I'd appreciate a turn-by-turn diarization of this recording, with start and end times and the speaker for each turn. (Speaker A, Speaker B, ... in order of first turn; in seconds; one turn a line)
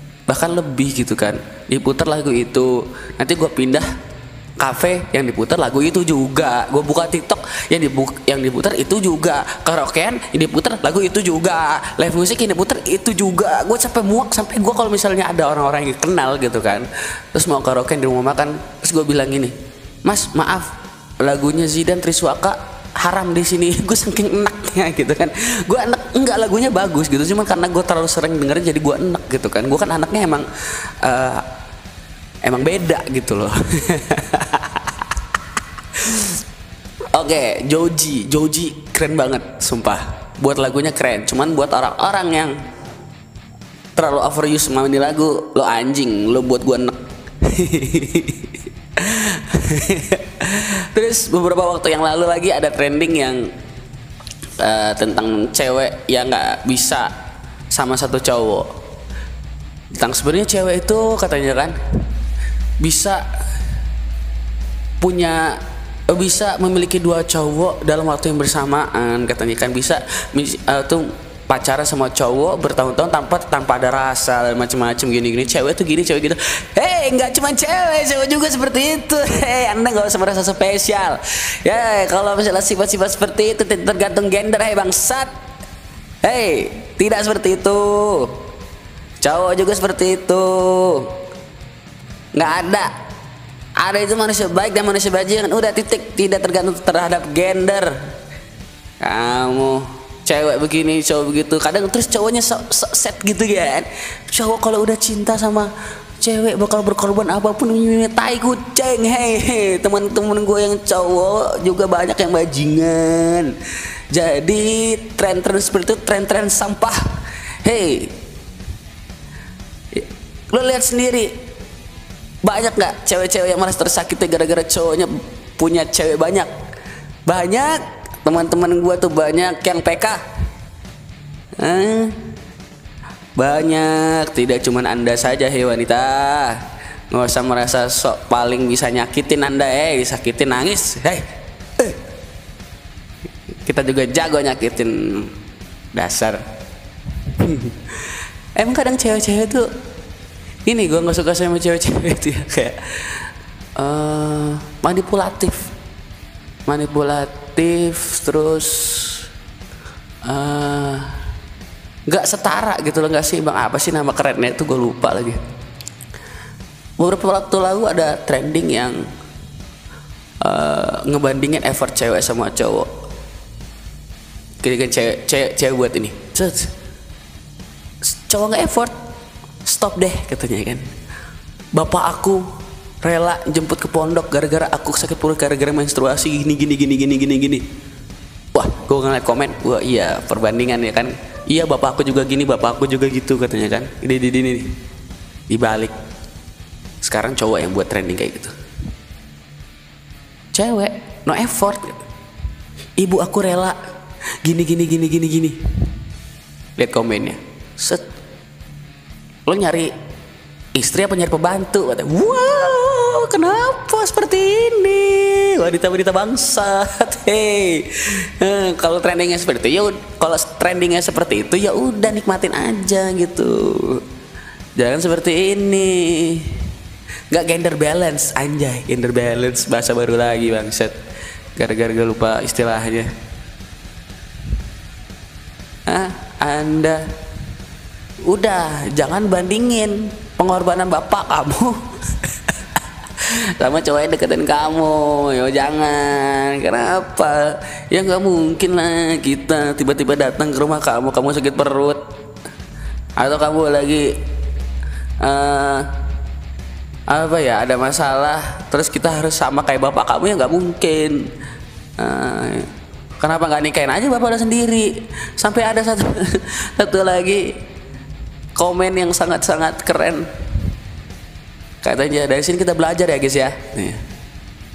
Speaker A: 0.3-3.9
Speaker A: 4.6-31.5
Speaker A: 32.4-35.1
Speaker A: 36.0-36.4
Speaker A: 37.1-42.6
Speaker A: 44.0-53.5
Speaker A: 54.6-57.1
Speaker A: 57.7-58.7
Speaker A: 59.9-61.8
Speaker A: 62.8-63.3
Speaker A: 65.0-85.3
Speaker A: 86.2-88.4
Speaker A: 89.2-91.2
Speaker A: 92.3-92.9
Speaker A: 93.8-98.0
Speaker A: 99.0-113.5
Speaker A: 114.1-117.0
Speaker A: 117.6-118.2
Speaker A: 119.9-121.3
Speaker A: 122.4-126.5
Speaker A: 127.3-130.2
Speaker A: 131.6-132.2
Speaker A: 133.4-141.3
Speaker A: 143.6-145.3
Speaker A: 145.9-146.4
Speaker A: 147.3-149.7
Speaker A: 150.7-155.7
Speaker A: 156.7-159.3
Speaker A: 160.2-161.2
Speaker A: 162.1-165.4
Speaker A: 167.0-169.1
Speaker A: 170.4-172.9
Speaker A: 174.6-176.7
Speaker A: 178.0-178.9
Speaker A: 179.7-180.9
Speaker A: 181.7-182.5
Speaker A: 183.0-187.7
Speaker A: 188.5-194.7
Speaker A: 195.5-195.9
Speaker A: 197.0-198.5
Speaker A: 200.5-202.0
Speaker A: 203.0-203.8
Speaker A: 204.4-205.6
Speaker A: 206.8-208.1
Speaker A: 209.5-209.9
Speaker A: 210.7-224.0
Speaker A: 224.8-226.7
Speaker A: 227.3-230.9
Speaker A: 231.6-233.1
Speaker A: 235.9-237.0
Speaker A: 238.3-252.0
Speaker A: 253.2-254.1
Speaker A: 255.2-255.9
Speaker A: 257.1-261.2
Speaker A: 262.0-262.7
Speaker A: 263.2-267.6
Speaker A: 268.6-270.3
Speaker A: 271.8-274.0